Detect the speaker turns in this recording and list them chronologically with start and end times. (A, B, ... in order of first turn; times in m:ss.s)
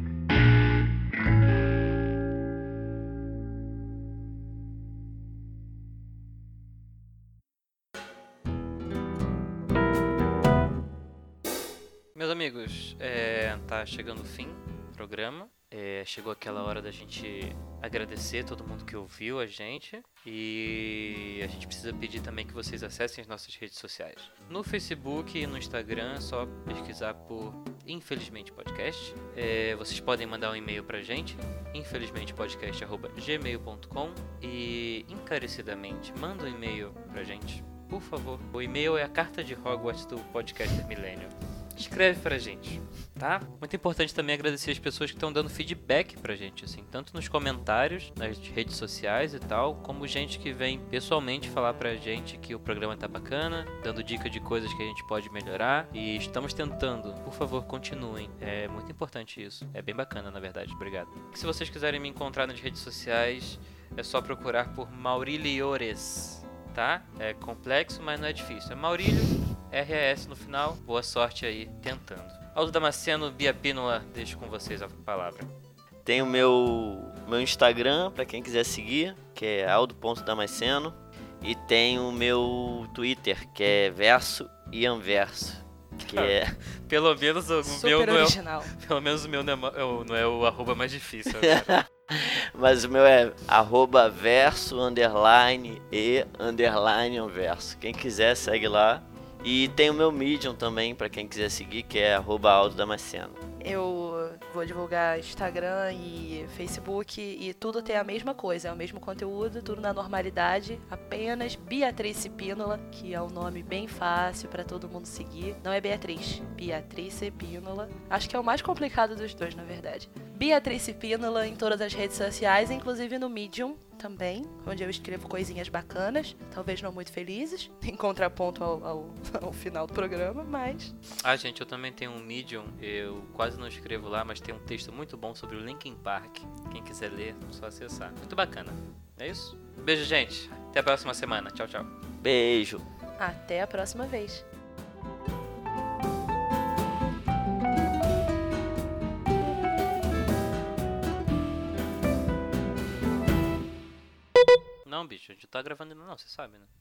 0:12.2-1:15.5 A
1:16.0-1:26.5 B
1:26.0-1:31.8 A
1:27.6-1:28.7 C
1:31.4-1:43.4 B
1:43.6-2:11.0 C
2:11.2-2:21.9 A
2:22.2-2:22.8 B
2:23.2-2:24.4 C
2:34.8-2:36.7 A